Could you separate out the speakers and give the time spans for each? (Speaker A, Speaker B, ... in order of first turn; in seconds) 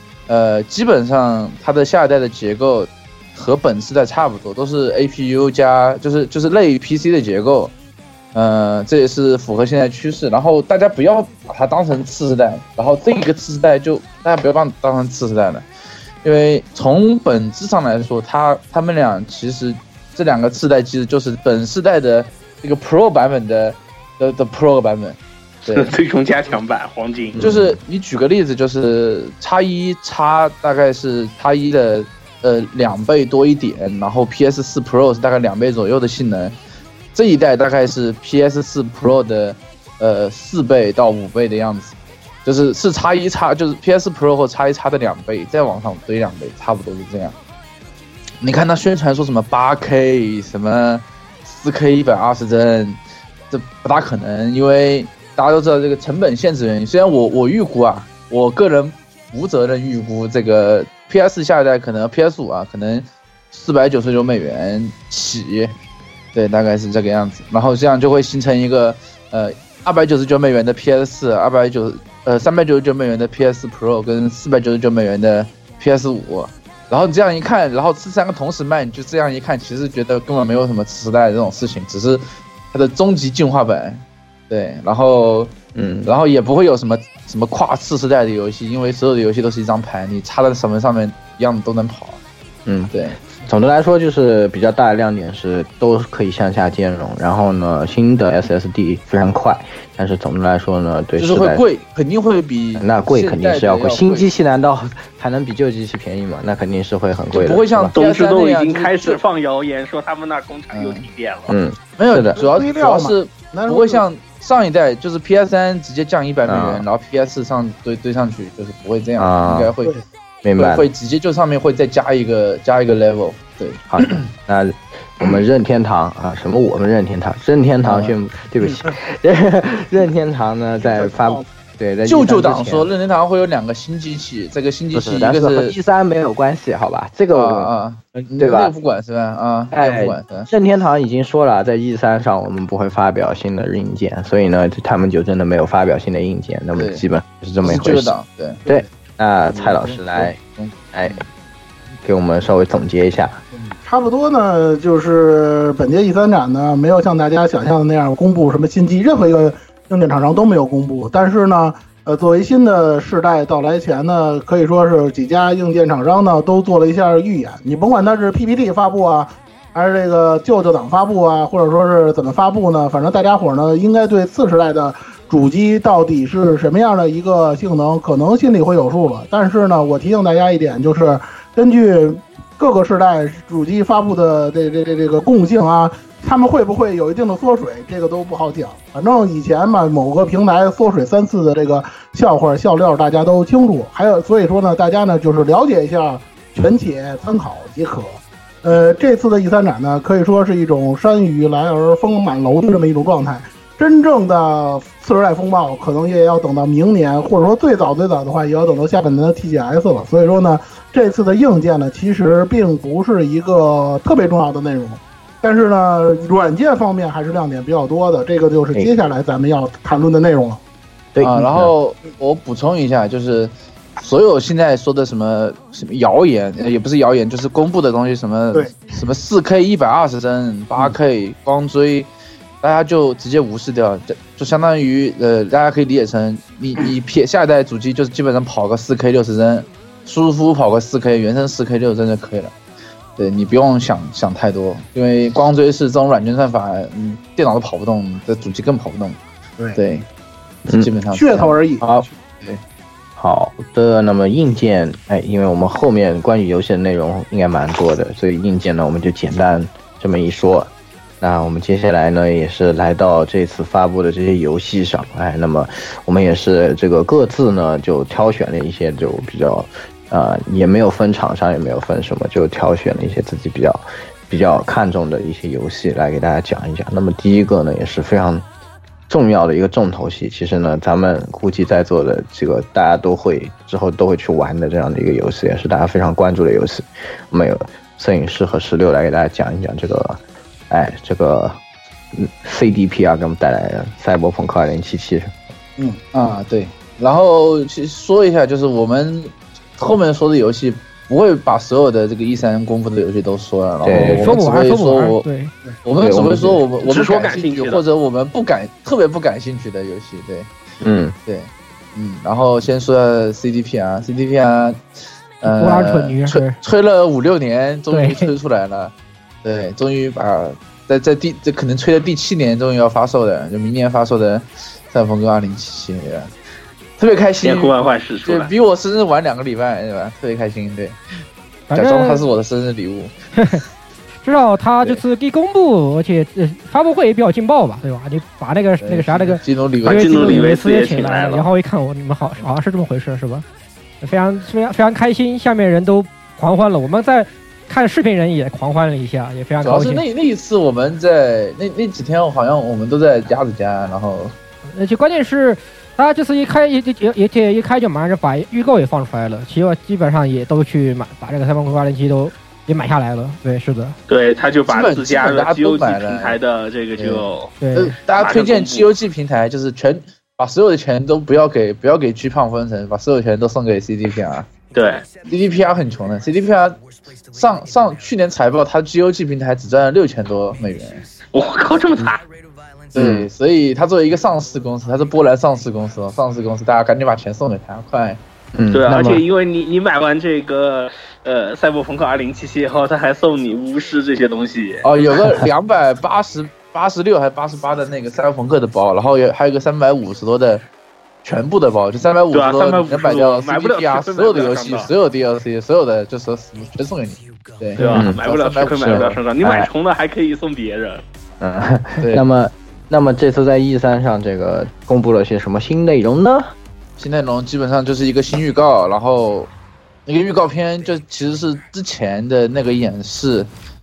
Speaker A: 0.3-7.7, 8.3-15.6, 16.2-25.9, 27.4-36.5, 37.1-47.4, 48.4-53.0, 53.5-65.7, 66.3-85.5, 86.0-92.2, 92.9-93.2, 101.2-104.3, 107.3-109.2, 110.7-111.0, 112.0-119.9, 120.5-124.2, 127.8-128.1, 132.0-135.7, 137.3-140.5, 146.7-147.0, 147.6-148.6, 149.5-151.2, 221.2-232.1, 232.6-242.5, 243.2-249.2, 249.7-250.1, 250.7-251.6, 252.3-252.6, 296.1-305.2, 305.8-310.5, 311.2-314.8, 315.4-318.9, 319.4-326.3, 327.0-331.0, 331.7-333.1, 338.8-340.4, 349.6-354.3, 364.7-366.4, 366.9-374.6, 375.2-381.1, 382.9-388.2, 394.8-400.6, 401.2-409.2, 412.0-412.2, 417.0-419.5, 420.1-423.5
Speaker B: 25.7-27.4, 107.9-111.5, 306.8-307.8, 327.4-328.5, 339.9-341.5, 364.1-367.5, 368.1-368.9, 374.7-375.1, 381.3-382.2, 388.7-394.8, 402.3-404.9, 407.8-411.0
Speaker C: 27.4-27.8, 85.7-86.1, 92.7-101.6, 102.8-107.9, 111.5-112.4, 116.5-116.8, 119.2-119.7, 120.4-120.9, 123.9-132.9, 134.9-137.7, 138.3-138.7, 139.7-148.1, 148.7-150.4, 150.9-151.2, 152.0-153.4, 221.2-221.7, 251.8-252.1, 253.2-278.4, 279.1-290.2, 290.7-291.6, 292.1-295.3, 303.8-304.4, 306.0-306.6, 310.8-311.1, 382.9-383.3, 388.5-389.2, 407.9-408.2, 408.8-409.7, 411.4-416.5
Speaker D: 112.3-114.0, 130.8-131.4, 153.6-220.6, 228.5-228.9, 251.1-251.8
Speaker E: 303.9-305.5, 315.5-316.6, 317.9-318.3, 331.7-332.2, 333.4-333.6, 334.2-343.4, 344.0-350.0, 354.7-363.9, 367.6-368.0